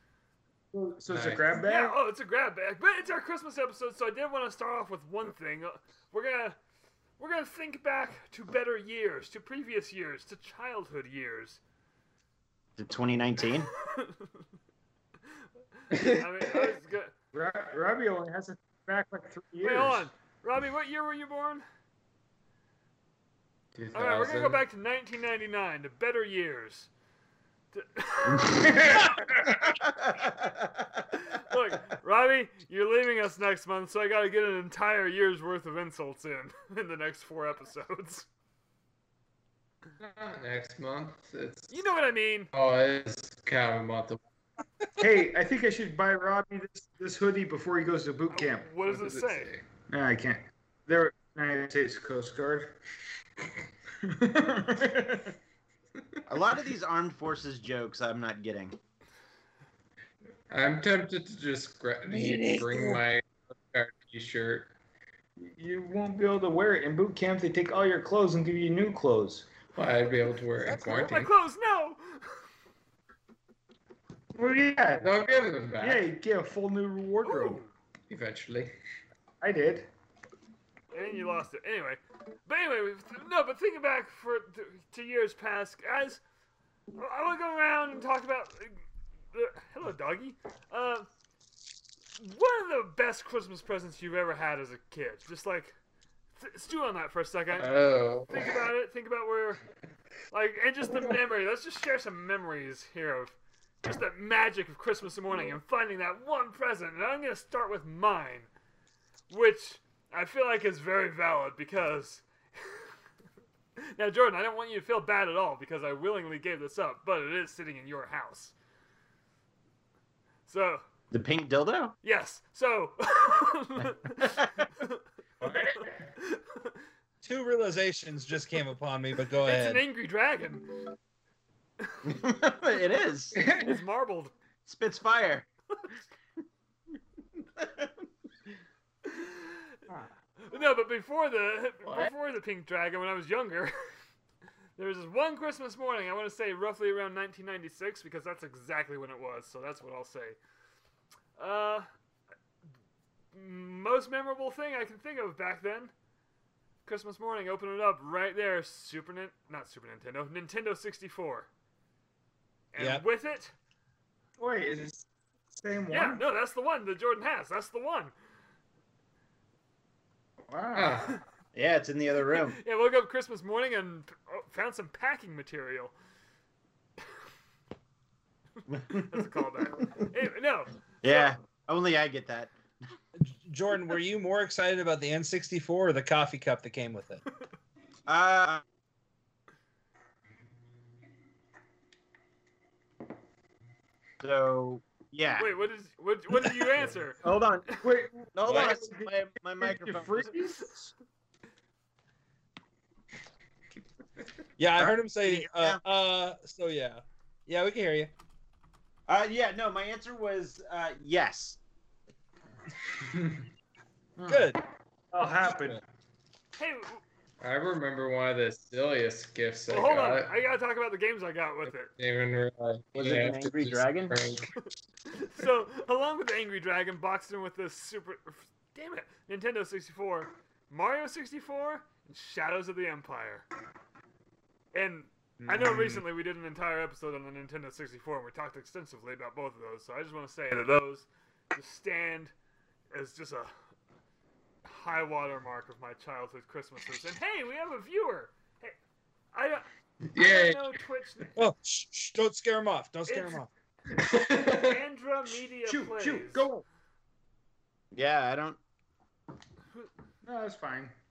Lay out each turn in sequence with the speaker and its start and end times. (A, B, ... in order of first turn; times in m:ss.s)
0:00.7-0:02.0 A
0:01.1-0:01.5 B
0:01.6-0:06.6 C
0:07.2-0:11.6 C
0:12.8-0:13.7 D
0:13.7-0:14.3 C
0:15.9-0:17.1 C
0:15.9-0:16.3 B
0:17.3-0:20.1 A
0:19.6-0:21.6 C
0:23.8-0:24.6 B
0:24.0-0:26.9 C
0:27.7-0:29.1 C
0:28.5-0:29.6 A
0:29.5-0:31.1 D
0:31.2-0:38.3 C
0:40.0-0:41.9 B
0:41.7-0:42.5 C
0:42.5-0:44.2 B
0:45.0-0:48.7 A
0:48.3-0:49.5 C
0:48.8-0:49.6 B
0:49.9-0:52.8 A
0:54.0-0:55.4 A
0:56.3-0:58.8 D
1:00.5-1:04.7 B
1:02.1-1:03.0 E
1:05.4-1:09.5 A
1:09.7-1:11.3 B
1:10.7-1:12.4 C
1:14.4-1:15.1 A
1:15.0-1:16.0 B
1:15.8-1:17.6 A
1:17.2-1:17.7 C
1:18.1-1:18.7 B
1:19.4-1:19.9 A
1:20.9-1:26.2 C
1:27.0-1:28.8 C
1:29.3-1:31.1 C
1:32.2-1:35.8 C
1:36.4-1:37.7 C
1:37.6-1:38.5 B
1:38.3-1:39.6 C
1:40.3-1:48.5 C
1:49.3-1:52.8 C
1:53.8-1:58.5 C
2:00.5-2:00.8 C
2:01.1-2:02.0 D
2:02.0-2:06.7 C
2:04.2-2:04.5 D
2:05.4-2:06.0 A
2:07.2-2:09.8 E
2:09.4-2:10.8 C
2:12.0-2:13.4 D
2:13.3-2:13.8 A
2:13.5-2:14.3 C
2:14.7-2:15.5 D
2:17.6-2:17.9 D
2:19.1-2:19.6 C
2:20.4-2:23.7 C
2:21.8-2:22.1 B
2:24.8-2:30.4 C
2:31.4-2:31.9 C
2:33.3-2:35.9 C
2:36.8-2:41.5 C
2:42.7-2:43.5 C
2:42.8-2:43.0 E
2:44.4-2:46.2 A
2:45.9-2:48.1 C
2:50.5-2:51.1 A
2:50.8-2:51.1 B
2:51.6-2:52.6 D
2:52.5-2:55.9 C
2:58.7-2:59.2 D
2:58.9-3:01.4 C
3:01.0-3:02.5 D
3:03.2-3:07.2 E
3:08.1-3:08.6 D
3:14.2-3:15.6 D
3:15.4-3:17.2 C
3:17.2-3:17.8 D
3:17.8-3:20.9 A
3:18.4-3:20.4 D
3:18.5-3:18.7 B
3:24.6-3:28.1 E
3:25.2-3:25.8 D
3:29.1-3:31.6 D
3:33.0-3:33.5 A
3:34.2-3:34.5 A
3:34.3-3:34.6 E
3:35.1-3:35.8 A
3:35.5-3:35.8 E
3:36.6-3:37.0 C
3:37.4-3:40.4 B
3:39.7-3:41.9 C
3:41.9-3:44.5 B
3:43.0-3:44.2 D
3:45.1-3:53.5 C
3:54.7-4:02.3 C
3:55.5-3:56.0 A
4:02.9-4:03.5 C
4:04.7-4:08.8 C
4:09.3-4:09.7 C
4:10.1-4:10.8 B
4:10.2-4:11.4 C
4:11.4-4:13.5 E
4:13.1-4:13.4 C
4:13.9-4:14.8 B
4:14.4-4:16.5 C
4:15.7-4:16.6 A
4:17.9-4:18.6 D
4:20.2-4:20.9 A